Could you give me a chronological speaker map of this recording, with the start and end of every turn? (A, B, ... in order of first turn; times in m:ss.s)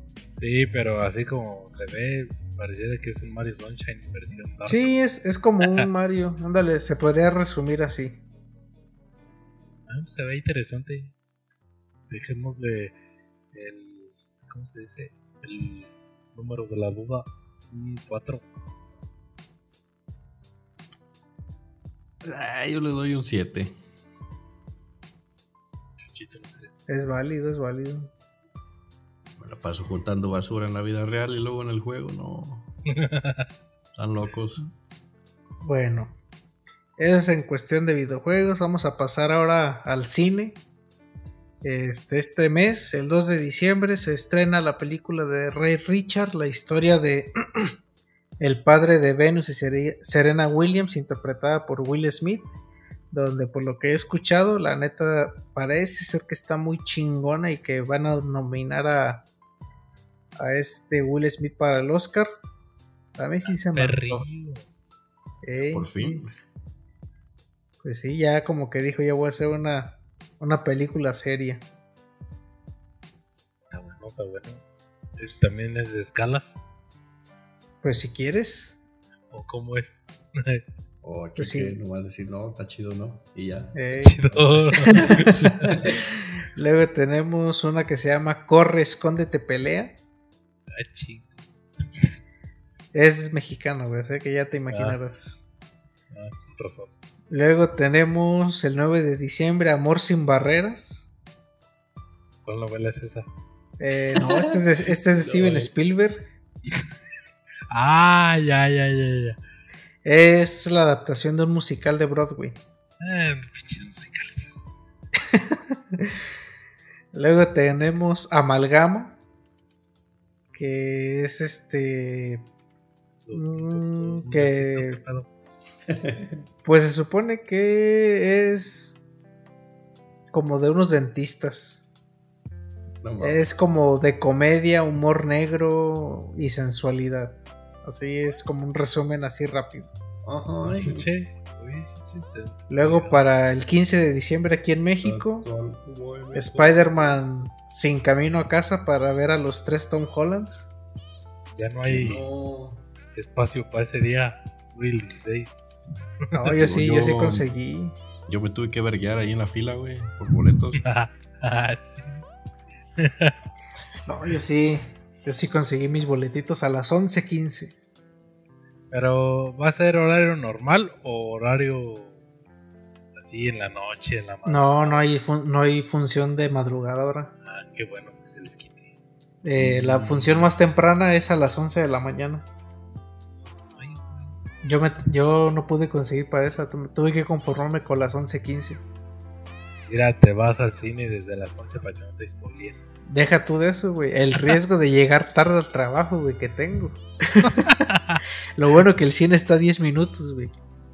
0:00.4-0:04.9 A
0:04.7-0:08.2 B
0:09.9-0:11.1 A
0:12.1-0:13.0 A
0:13.5-0:18.5 A
0:22.2-0:23.7 C
0:26.0-0:26.7 A
0:26.9-0:28.1 B
0:29.4-0:32.7 C
0:32.9-0:33.5 A
0:34.0-0:34.6 C
0:35.6-0:36.2 B
0:37.0-0:40.6 B
0:41.6-0:47.7 B
0:48.4-0:52.6 B
0:53.1-0:59.3 B
1:00.4-1:02.4 B
1:03.2-1:04.3 B
1:03.5-1:04.6 A
1:05.4-1:06.2 B
1:05.7-1:06.3 C
1:07.8-1:11.6 B
1:13.7-1:14.6 A
1:15.2-1:16.6 A
1:17.8-1:18.8 B
1:19.3-1:20.6 A
1:21.0-1:23.8 C
1:21.4-1:21.8 B
1:23.8-1:24.2 B
1:24.0-1:25.8 A
1:24.3-1:25.2 C
1:26.6-1:30.0 B
1:30.8-1:32.1 A
1:32.9-1:35.5 B
1:34.7-1:35.0 A
1:36.1-1:36.9 A
1:37.3-1:41.1 B
1:42.4-1:43.3 A
1:43.8-1:46.2 B
1:45.2-1:45.7 C
1:46.6-1:46.9 A
1:47.7-1:49.4 A
1:50.0-1:52.6 B
1:53.0-1:54.7 A
1:55.2-1:56.2 B
1:57.1-1:59.2 B
2:00.5-2:02.5 B
2:03.2-2:05.3 A
2:03.3-2:05.0 B
2:05.9-2:06.2 C
2:06.6-2:09.0 B
2:10.3-2:11.8 B
2:13.0-2:13.5 C
2:13.2-2:19.9 B
2:20.2-2:21.1 C
2:20.6-2:23.2 A
2:22.7-2:25.5 B
2:25.0-2:27.2 C
2:26.3-2:30.7 B
2:31.6-2:32.2 A
2:31.8-2:32.8 C
2:33.2-2:35.6 A
2:36.3-2:38.0 B
2:36.6-2:37.5 C
2:38.3-2:40.8 C
2:40.8-2:42.2 A
2:43.0-2:43.3 A
2:44.1-2:47.8 B
2:48.9-2:52.2 A
2:53.2-2:55.1 A
2:54.5-2:57.3 B
2:57.4-2:58.9 A
2:59.4-3:02.5 B
2:59.6-3:00.5 C
3:03.8-3:04.4 A
3:04.6-3:08.8 B
3:09.9-3:12.8 A
3:13.0-3:17.7 B
3:17.4-3:18.2 A
3:18.6-3:20.5 B